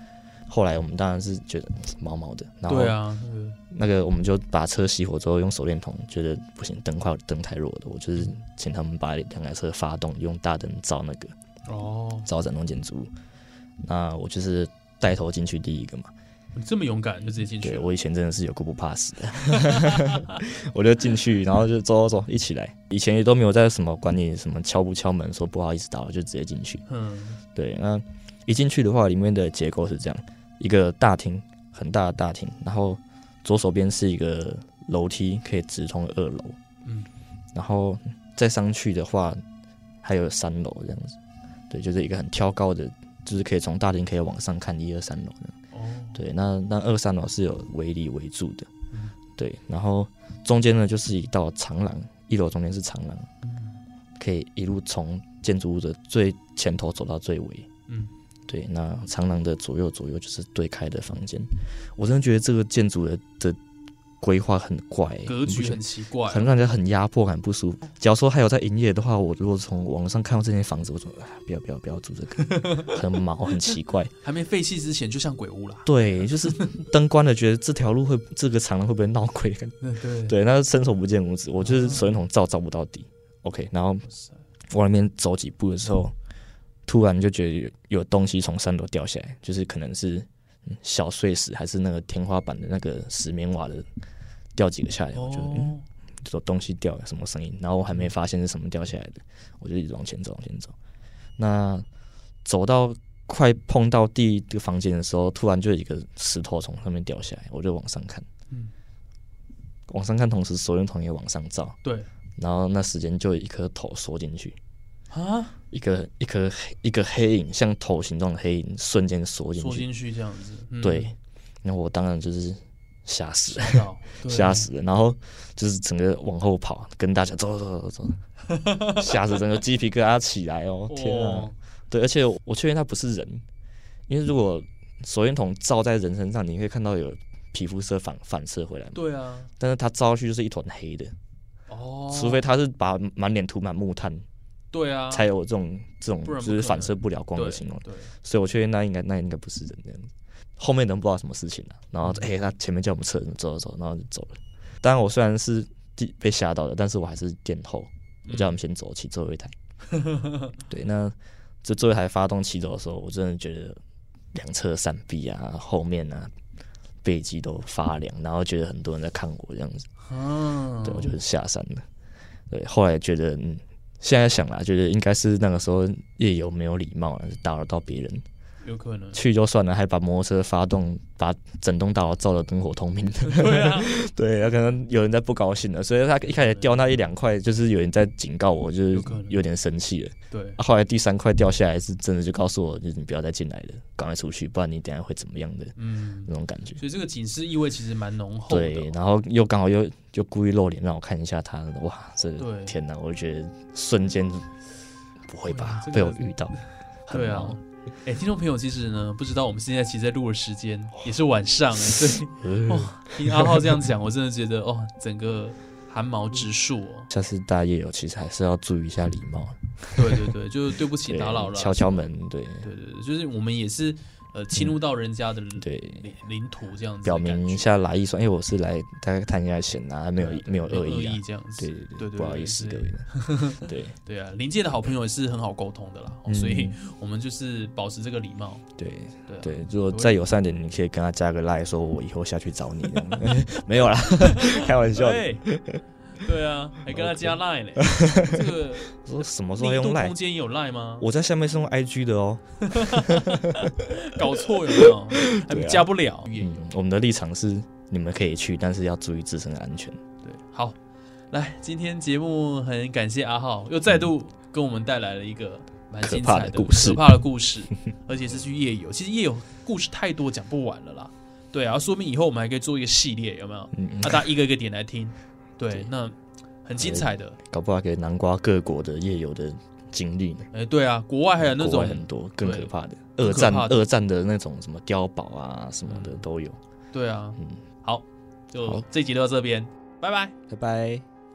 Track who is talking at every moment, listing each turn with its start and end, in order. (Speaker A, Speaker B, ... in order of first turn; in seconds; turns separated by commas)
Speaker A: 0.5-3.0, Speaker B: 2.7-3.6, Speaker A: 3.7-11.3, Speaker B: 11.7-12.3, Speaker A: 12.2-13.1, Speaker A: 13.8-16.1, Speaker B: 16.5-17.9, Speaker A: 17.5-26.8, Speaker B: 19.7-20.3, Speaker B: 26.9-27.4, Speaker A: 27.5-36.6, Speaker B: 36.8-37.1, Speaker A: 37.5-39.4, Speaker A: 40.0-41.2, Speaker A: 41.7-45.6, Speaker B: 45.7-46.2, Speaker A: 46.1-48.7, Speaker A: 49.4-53.3, Speaker B: 53.4-53.8, Speaker A: 54.2-57.7, Speaker B: 57.9-58.1, Speaker A: 58.5-63.6, Speaker A: 64.2-74.1, Speaker B: 65.2-66.5, Speaker B: 72.5-73.0, Speaker B: 74.2-76.8, Speaker A: 75.8-84.0, Speaker B: 79.8-80.3, Speaker B: 81.6-82.2, Speaker B: 84.1-84.4, Speaker A: 84.7-86.1, Speaker A: 86.9-93.9, Speaker A: 94.5-100.7, Speaker B: 95.1-95.8, Speaker A: 101.4-101.8, Speaker A: 102.4-108.2, Speaker A: 109.9-111.8, Speaker B: 111.8-112.1, Speaker A: 112.4-114.6, Speaker B: 115.1-115.6, Speaker A: 115.7-119.9, Speaker B: 119.6-121.1, Speaker A: 120.8-128.2, Speaker B: 123.5-124.7, Speaker B: 128.5-129.2, Speaker A: 128.9-133.4, Speaker B: 130.9-131.6, Speaker A: 134.1-139.0, Speaker B: 138.9-139.5, Speaker A: 139.6-141.1, Speaker B: 141.7-142.4, Speaker A: 142.1-144.2, Speaker B: 144.7-145.2, Speaker A: 145.1-159.5, Speaker B: 146.2-148.1, Speaker B: 158.2-158.6, Speaker B: 159.9-160.5, Speaker A: 160.7-163.8, Speaker A: 164.3-166.3, Speaker A: 167.0-169.9, Speaker B: 170.0-171.2, Speaker A: 170.8-171.8, Speaker A: 172.5-178.2, Speaker B: 178.6-179.2, Speaker A: 179.1-196.8, Speaker B: 183.2-183.9, Speaker B: 186.3-187.0, Speaker B: 188.9-189.4, Speaker B: 190.3-190.6, Speaker B: 195.8-198.9, Speaker A: 198.5-204.5, Speaker B: 202.4-202.8, Speaker A: 205.3-207.6, Speaker B: 205.5-217.1, Speaker A: 212.4-213.8, Speaker A: 217.1-220.2, Speaker B: 219.9-222.1, Speaker A: 221.0-222.7, Speaker B: 222.6-227.7, Speaker A: 225.6-226.1, Speaker A: 227.0-234.0, Speaker B: 230.2-238.6, Speaker A: 236.3-236.8, Speaker A: 238.8-245.8, Speaker B: 239.3-240.2, Speaker B: 242.9-243.3, Speaker B: 244.0-245.4, Speaker B: 246.2-251.1, Speaker A: 246.9-248.4, Speaker A: 248.9-250.2, Speaker A: 251.0-253.9, Speaker B: 252.6-256.6, Speaker A: 254.5-260.0, Speaker B: 260.2-260.8, Speaker B: 261.3-277.4, Speaker A: 266.0-267.1, Speaker A: 273.7-274.2, Speaker A: 276.8-280.5, Speaker B: 280.5-283.8, Speaker A: 281.4-286.6, Speaker B: 285.9-286.2, Speaker B: 286.9-290.3, Speaker A: 290.5-291.1